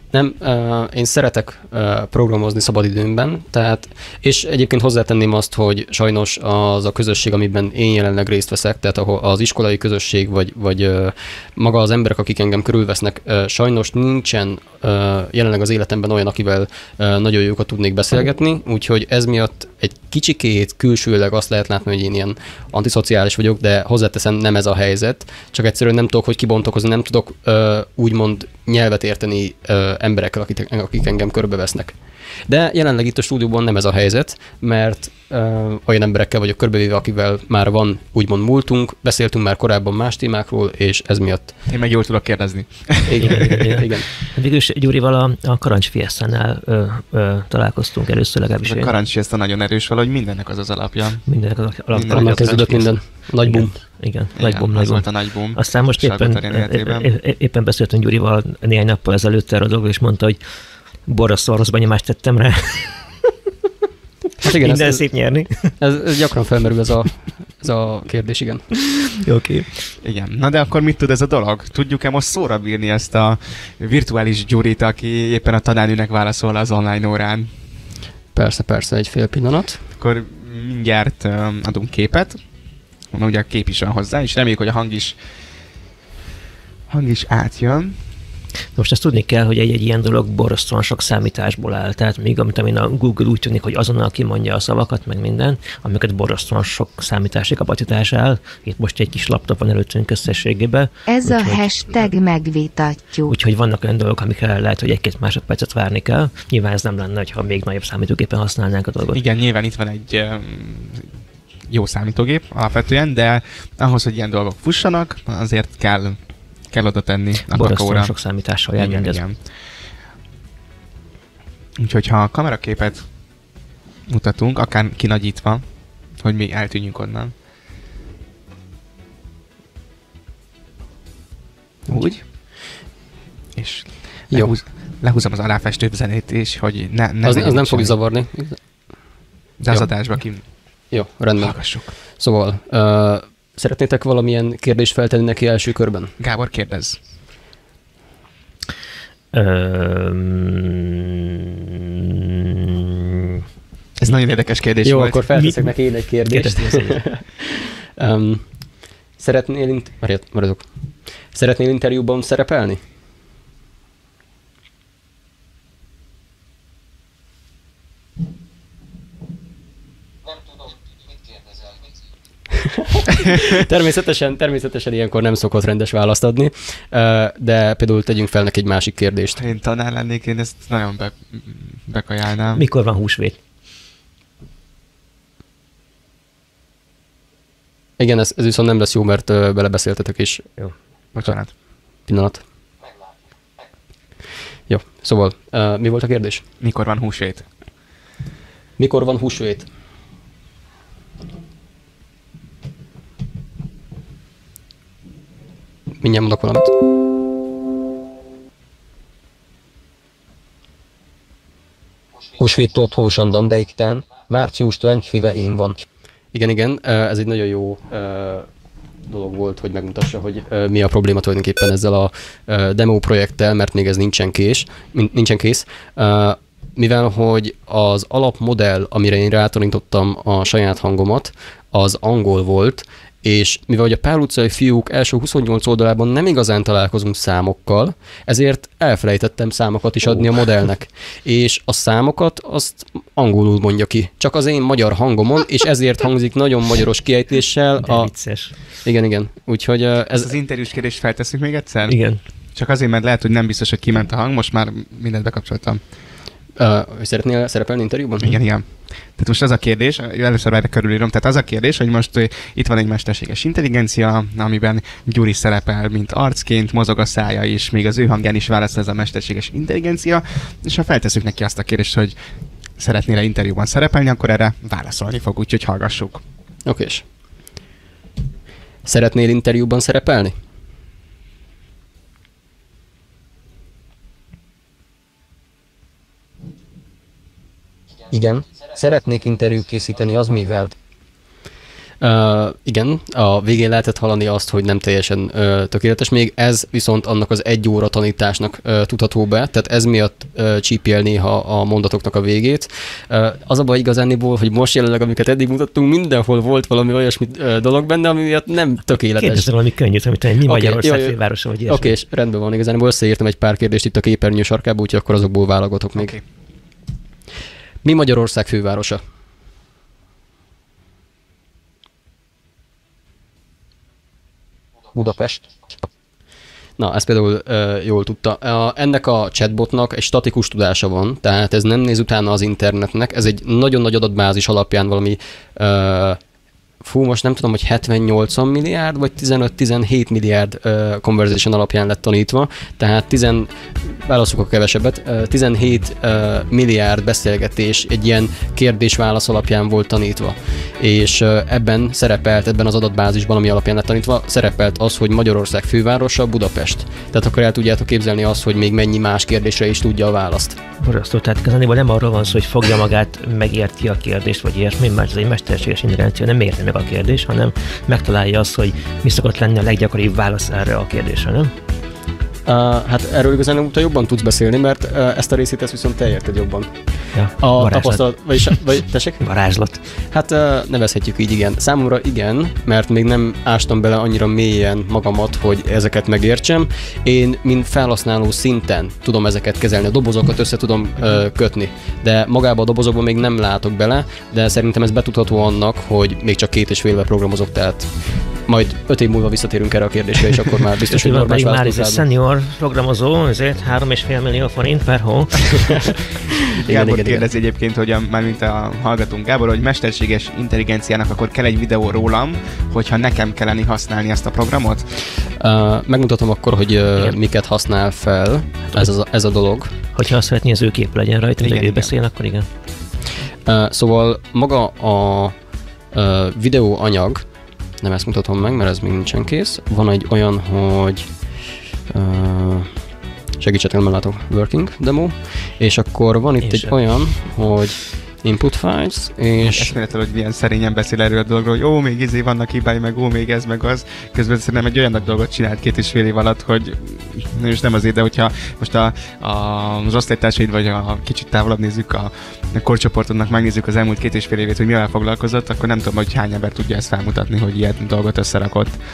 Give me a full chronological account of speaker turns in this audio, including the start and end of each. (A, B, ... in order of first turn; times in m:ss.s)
0:00.1-0:31.9 A
0:32.5-0:41.5 A
0:41.7-0:43.6 B
0:43.0-0:44.1 A
0:43.2-0:48.9 C
0:48.6-0:51.2 B
0:51.3-1:00.4 C
0:51.9-0:52.8 B
0:52.1-0:53.8 A
0:54.4-0:57.1 B
1:01.1-1:03.3 C
1:04.4-1:05.0 A
1:04.4-1:05.7 C
1:05.8-1:08.6 A
1:08.9-1:09.7 C
1:10.0-1:17.5 B
1:18.3-1:19.8 A
1:20.0-1:22.4 B
1:23.1-1:25.2 B
1:26.9-1:28.0 B
1:28.8-1:42.1 C
1:41.1-1:43.3 D
1:43.3-1:49.2 C
1:49.1-1:51.1 B
1:51.7-1:58.1 B
1:57.5-1:59.2 C
1:58.8-1:59.4 B
2:01.8-2:03.0 B
2:04.1-2:05.6 B
2:06.2-2:07.3 B
2:11.9-2:12.2 B
2:11.9-2:12.2 A
2:13.6-2:18.0 B
2:17.2-2:18.6 A
2:19.6-2:20.4 B
2:20.9-2:26.1 A
2:21.4-2:21.9 B
2:26.2-2:27.0 B
2:29.3-2:33.4 C
2:34.0-2:35.3 B
2:34.8-2:38.4 A
2:35.4-2:35.7 C
2:36.3-2:37.0 C
2:39.2-2:40.6 A
2:41.3-2:42.8 A
2:52.6-2:59.4 A
2:59.4-3:02.6 B
3:02.5-3:03.4 C
3:08.0-3:10.4 A
3:11.1-3:11.5 B
3:12.1-3:12.4 A
3:14.7-3:16.4 A
3:16.6-3:17.5 B
3:18.8-3:19.7 A
3:26.0-3:26.7 A
3:32.4-3:35.8 E
3:36.3-3:38.5 A
3:39.1-4:08.1 A
4:07.8-4:08.5 C
4:08.8-4:10.3 A
4:10.1-4:12.0 B
4:11.9-4:12.2 C
4:12.5-4:15.8 B
4:16.6-4:18.4 A
4:18.2-4:32.2 B
4:32.8-4:36.2 B
4:36.6-4:37.0 A
4:38.8-4:40.3 A
4:48.1-4:50.7 E
4:52.0-5:09.5 A
5:09.2-5:11.9 C
5:10.4-5:16.2 A
5:16.0-5:16.2 B
5:17.8-5:19.0 A
5:24.9-5:25.8 E
5:26.8-5:36.2 A
5:36.8-6:00.6 A
6:00.8-6:11.5 C
6:12.5-6:16.7 A
6:17.1-6:18.6 C
6:17.4-6:19.2 A
6:19.2-6:19.8 C
6:19.9-6:37.9 A
6:38.4-6:42.0 A
6:40.9-6:45.9 C
6:46.5-6:47.3 A
6:46.6-6:55.0 B
6:55.3-6:59.7 A
6:59.9-7:02.5 C
7:01.4-7:01.9 B
7:03.4-7:05.3 A
7:05.9-7:07.2 A
7:07.8-7:11.1 A
7:11.9-7:12.7 A
7:13.4-7:19.7 A
7:16.4-7:16.8 C
7:19.4-7:38.8 B